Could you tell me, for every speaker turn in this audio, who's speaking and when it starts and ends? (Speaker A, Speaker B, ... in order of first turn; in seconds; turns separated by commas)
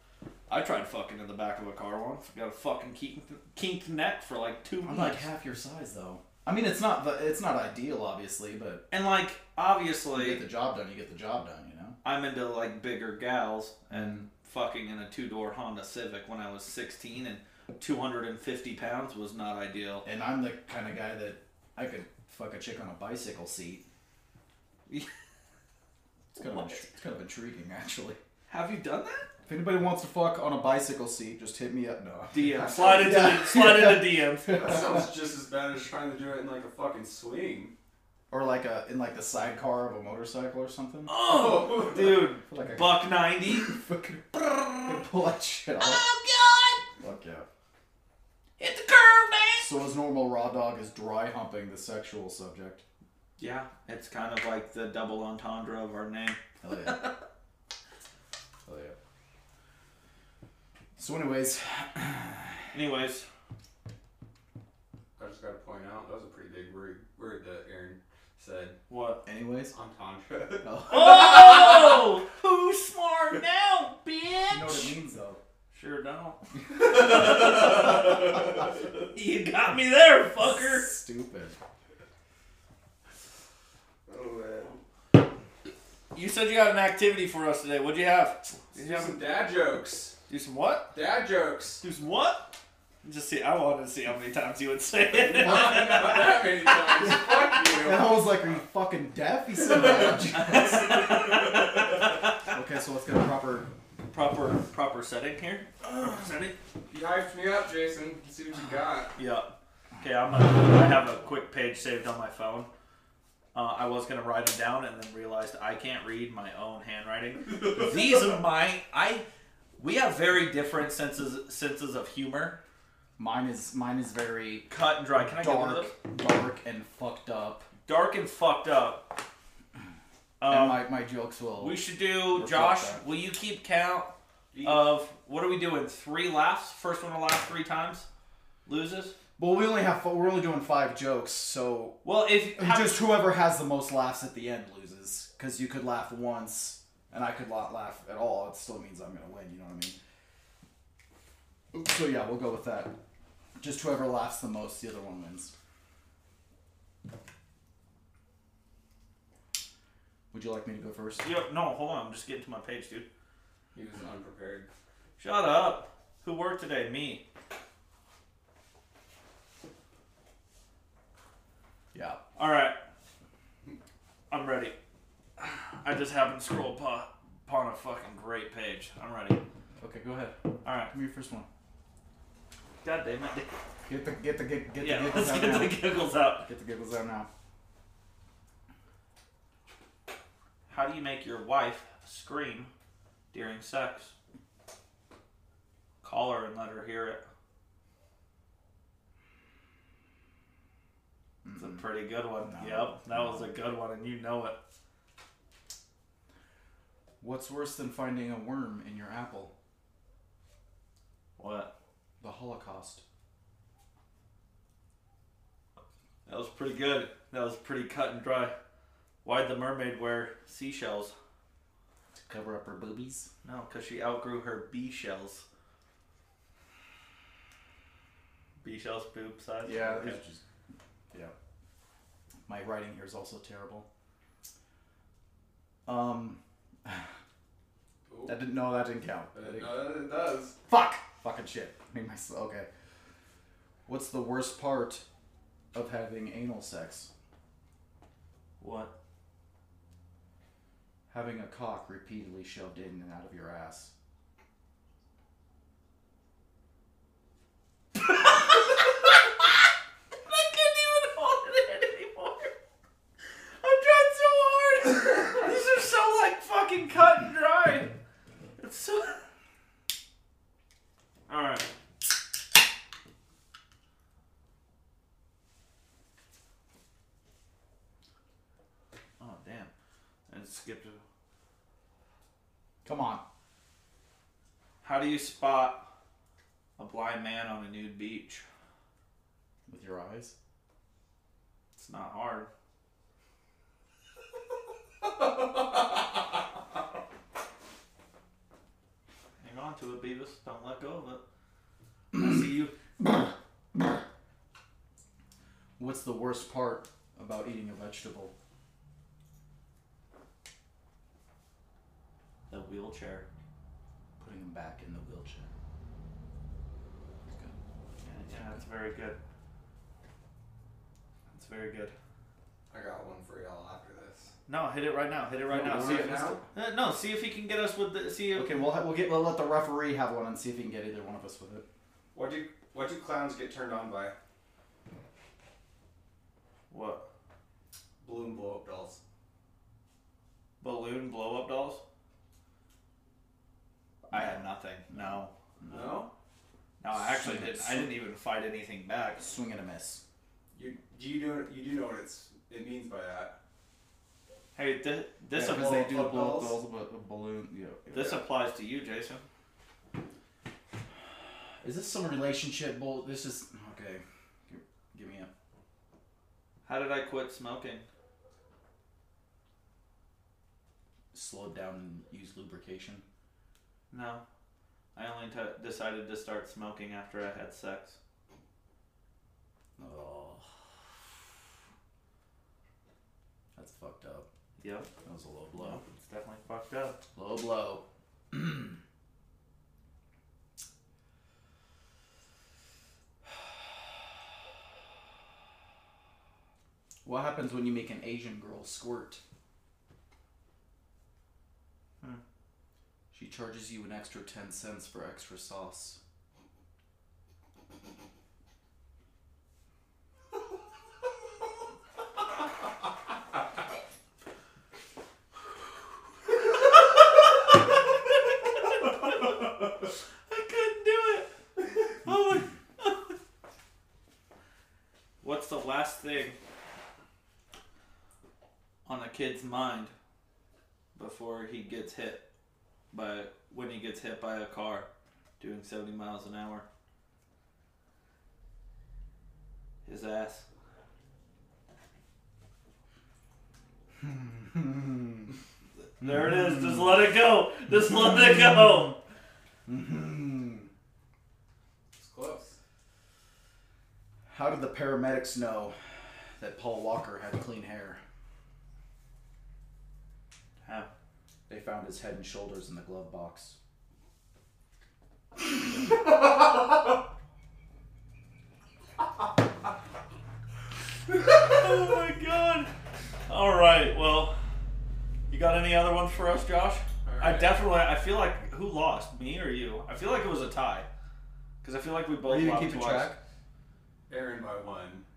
Speaker A: 0.5-5.3, Speaker B: 4.8-8.8, Speaker A: 8.9-10.4, Speaker B: 10.1-11.9, Speaker A: 12.0-20.0, Speaker B: 13.9-14.2, Speaker B: 20.0-23.8, Speaker B: 26.3-28.2, Speaker A: 26.5-26.8, Speaker A: 28.5-29.3, Speaker B: 29.4-35.0, Speaker A: 32.3-34.6, Speaker C: 34.5-37.7, Speaker B: 38.3-41.1, Speaker A: 41.1-43.7, Speaker C: 41.2-42.3, Speaker B: 42.5-46.0, Speaker A: 45.8-46.8, Speaker B: 47.0-47.5, Speaker A: 48.6-49.8, Speaker B: 49.6-52.8, Speaker A: 53.4-57.1, Speaker B: 56.6-57.1, Speaker B: 58.6-59.0, Speaker B: 61.0-62.6, Speaker A: 62.7-63.2, Speaker C: 65.2-68.8, Speaker A: 68.9-69.2, Speaker B: 69.2-69.7, Speaker C: 69.7-72.0, Speaker B: 70.6-71.3, Speaker A: 70.9-75.0, Speaker B: 74.5-75.4, Speaker A: 75.7-78.4, Speaker C: 76.8-78.1, Speaker A: 79.1-80.9, Speaker B: 80.4-81.6, Speaker C: 84.1-84.8, Speaker A: 86.1-89.2, Speaker C: 88.7-90.2, Speaker A: 90.3-90.9, Speaker C: 90.9-91.8, Speaker A: 91.8-92.5, Speaker A: 93.0-96.8, Speaker C: 95.1-98.1, Speaker B: 97.7-101.2, Speaker C: 99.6-101.9, Speaker A: 100.3-102.5, Speaker B: 102.4-103.7, Speaker A: 104.1-106.5, Speaker C: 106.9-109.1, Speaker A: 109.2-109.5, Speaker A: 110.0-112.7, Speaker A: 113.5-119.2, Speaker A: 119.8-122.6, Speaker B: 123.2-124.7, Speaker A: 124.7-125.9, Speaker B: 125.2-127.7, Speaker A: 127.8-129.0, Speaker A: 130.4-130.8, Speaker B: 130.5-133.0, Speaker A: 131.6-134.1, Speaker C: 134.5-134.9, Speaker A: 134.6-138.1, Speaker A: 138.6-139.1, Speaker B: 139.4-142.0, Speaker A: 142.0-143.1, Speaker B: 142.6-150.0, Speaker B: 151.7-152.9, Speaker B: 153.6-155.5, Speaker B: 160.3-161.3, Speaker A: 161.2-163.1, Speaker C: 163.7-164.7, Speaker A: 165.2-167.2, Speaker B: 171.9-172.2, Speaker A: 172.3-172.8, Speaker A: 174.3-174.7, Speaker A: 175.4-179.4, Speaker B: 179.8-180.3, Speaker A: 180.6-180.9, Speaker B: 180.9-181.5, Speaker A: 182.8-183.5, Speaker B: 183.8-185.8, Speaker A: 184.8-186.5, Speaker B: 186.4-187.3, Speaker A: 190.7-192.7, Speaker A: 193.3-194.1, Speaker A: 196.0-197.2, Speaker B: 201.4-201.8, Speaker A: 201.5-204.6, Speaker B: 202.5-203.5, Speaker B: 207.2-209.5, Speaker A: 211.4-211.7, Speaker B: 212.2-213.0, Speaker A: 216.2-218.5, Speaker A: 219.2-221.1, Speaker B: 222.2-223.3, Speaker A: 223.4-225.4, Speaker A: 228.6-230.2, Speaker B: 229.6-230.4, Speaker B: 232.5-233.8, Speaker B: 235.8-237.1, Speaker C: 238.1-238.4, Speaker B: 238.2-239.8, Speaker C: 239.3-240.6, Speaker B: 240.7-242.7, Speaker B: 243.9-245.0, Speaker B: 245.7-247.1, Speaker A: 248.6-248.9, Speaker B: 251.1-253.9, Speaker A: 258.1-259.5, Speaker A: 260.2-262.5, Speaker A: 263.6-267.9, Speaker A: 268.6-269.2, Speaker A: 271.3-271.7, Speaker A: 279.2-279.7, Speaker A: 280.3-281.0, Speaker B: 282.8-283.2, Speaker A: 284.8-285.9, Speaker A: 286.8-288.4, Speaker B: 289.7-290.3, Speaker A: 291.8-292.5, Speaker A: 299.4-301.2, Speaker A: 302.1-302.7, Speaker B: 305.8-308.3, Speaker A: 312.5-313.2, Speaker B: 314.2-315.5, Speaker B: 317.3-317.5, Speaker A: 318.1-319.2, Speaker A: 321.3-321.9, Speaker C: 322.7-324.3, Speaker A: 324.5-328.6, Speaker C: 325.5-326.4, Speaker B: 325.6-326.4, Speaker B: 328.3-331.6, Speaker C: 332.1-334.1, Speaker A: 336.7-337.0, Speaker C: 338.0-339.0, Speaker A: 340.6-341.8, Speaker A: 344.1-345.3, Speaker B: 344.9-346.0, Speaker C: 345.7-346.1, Speaker A: 346.8-349.2, Speaker B: 346.9-348.0, Speaker B: 349.2-350.0, Speaker C: 350.5-353.4, Speaker A: 354.5-356.0, Speaker B: 355.3-358.2, Speaker C: 355.6-356.6, Speaker A: 357.9-359.2, Speaker B: 361.6-365.3, Speaker A: 366.6-367.9, Speaker B: 371.1-373.0, Speaker A: 373.9-374.2, Speaker A: 374.9-378.0, Speaker B: 379.8-380.5, Speaker B: 383.5-384.2, Speaker A: 384.6-384.9, Speaker B: 385.0-385.8, Speaker A: 385.6-387.0, Speaker B: 387.1-388.8, Speaker B: 397.0-399.2, Speaker B: 403.1-406.0, Speaker A: 418.1-419.4, Speaker A: 420.3-423.1, Speaker A: 425.2-426.4, Speaker A: 428.9-429.9, Speaker A: 430.9-432.2, Speaker A: 432.9-434.9, Speaker A: 435.4-436.6, Speaker A: 439.8-440.4, Speaker B: 444.0-445.3, Speaker A: 446.0-448.9, Speaker B: 446.0-447.0, Speaker B: 448.2-448.6, Speaker B: 449.7-450.7, Speaker C: 451.9-452.5, Speaker B: 454.3-455.8, Speaker B: 456.4-458.0, Speaker B: 461.5-463.6, Speaker A: 471.4-472.7, Speaker A: 473.3-474.4, Speaker A: 475.3-480.9, Speaker C: 477.1-477.6, Speaker A: 481.6-483.1, Speaker B: 482.2-483.2, Speaker C: 484.1-485.1